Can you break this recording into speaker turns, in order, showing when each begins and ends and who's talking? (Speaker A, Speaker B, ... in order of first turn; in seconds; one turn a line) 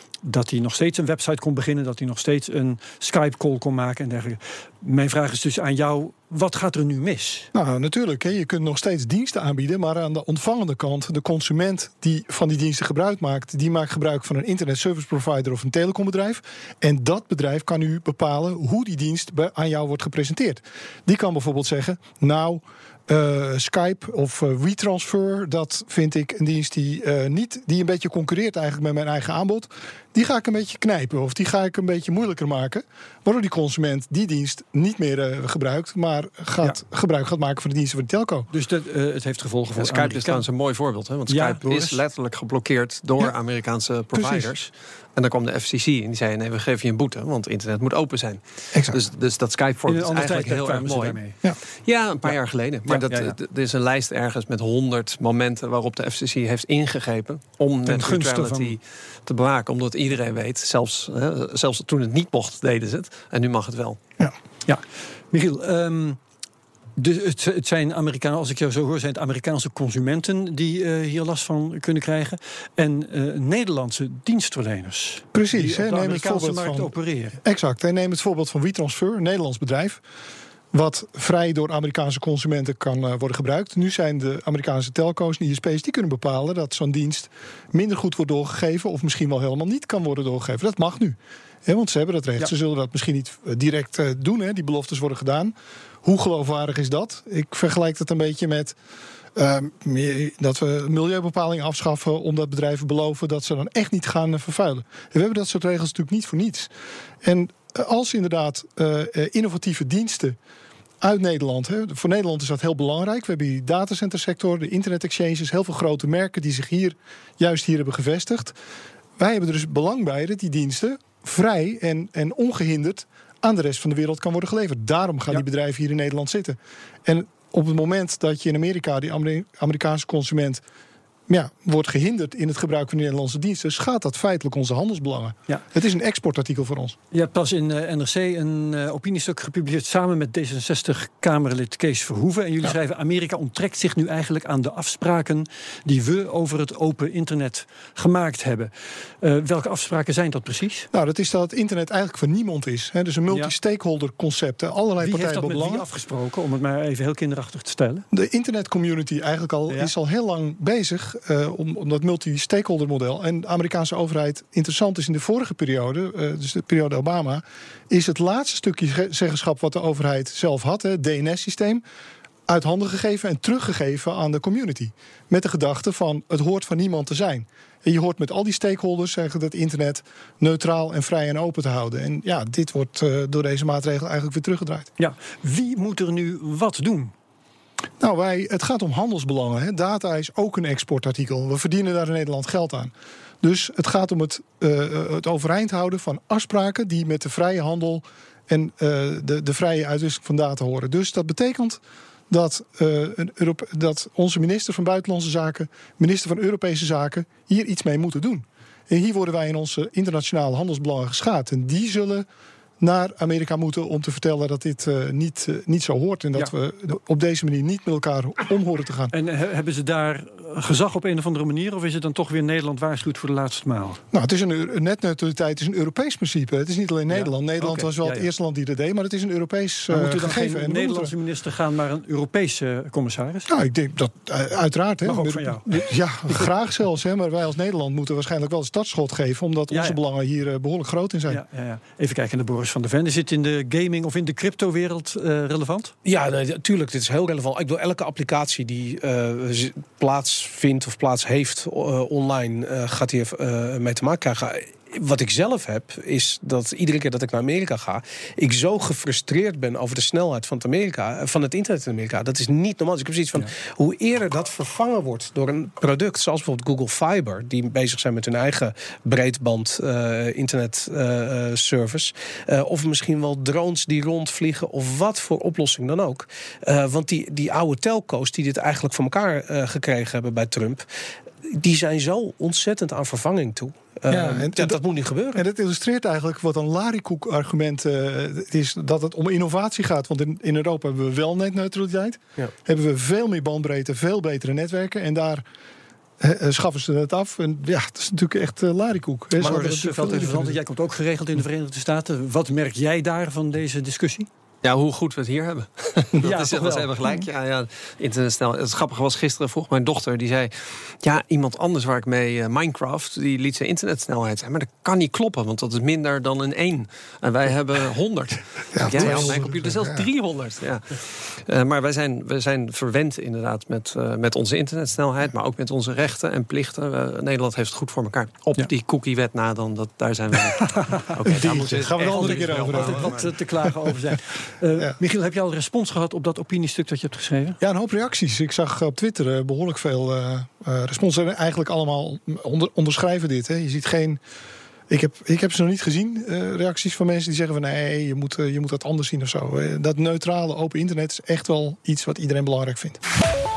Speaker A: 0.2-7.5
Speaker B: 7.5-38.5
Speaker A: 38.5-40.5
Speaker C: 39.8-51.2
Speaker A: 41.3-42.0
Speaker B: 44.1-44.5
Speaker B: 48.7-49.0
Speaker A: 49.9-51.4
Speaker C: 51.8-64.0
Speaker A: 52.3-53.3
Speaker A: 57.9-58.8
Speaker A: 64.7-66.2
Speaker A: 67.0-77.4
Speaker B: 75.3-80.0
Speaker B: 80.7-98.8
Speaker B: 99.4-106.7
Speaker B: 107.2-110.4
Speaker B: 111.0-118.5
Speaker B: 119.2-130.6
Speaker B: 131.3-137.0
Speaker A: 137.1-150.9
Speaker B: 150.9-155.9
Speaker A: 155.0-158.1
Speaker B: 158.1-171.8
Speaker B: 172.5-184.9
Speaker A: 185.0-187.1
Speaker B: 188.0-212.3
Speaker B: 212.8-219.1
Speaker A: 219.1-224.0
Speaker B: 224.1-231.1
Speaker A: 227.1-228.3
Speaker A: 229.9-233.5
Speaker B: 233.5-241.4
Speaker A: 235.1-235.9
Speaker A: 239.7-240.0
Speaker A: 241.3-245.9
Speaker D: 246.1-280.9
Speaker D: 281.5-285.4
Speaker B: 284.1-284.8
Speaker B: 285.3-295.4
Speaker B: 296.2-300.6
Speaker A: 299.4-304.3
Speaker C: 304.6-333.2
Speaker A: 306.2-306.9
Speaker B: 318.7-320.1
Speaker A: 330.6-337.6
Speaker B: 331.2-333.2
Speaker B: 337.6-344.2
Speaker B: 344.9-353.0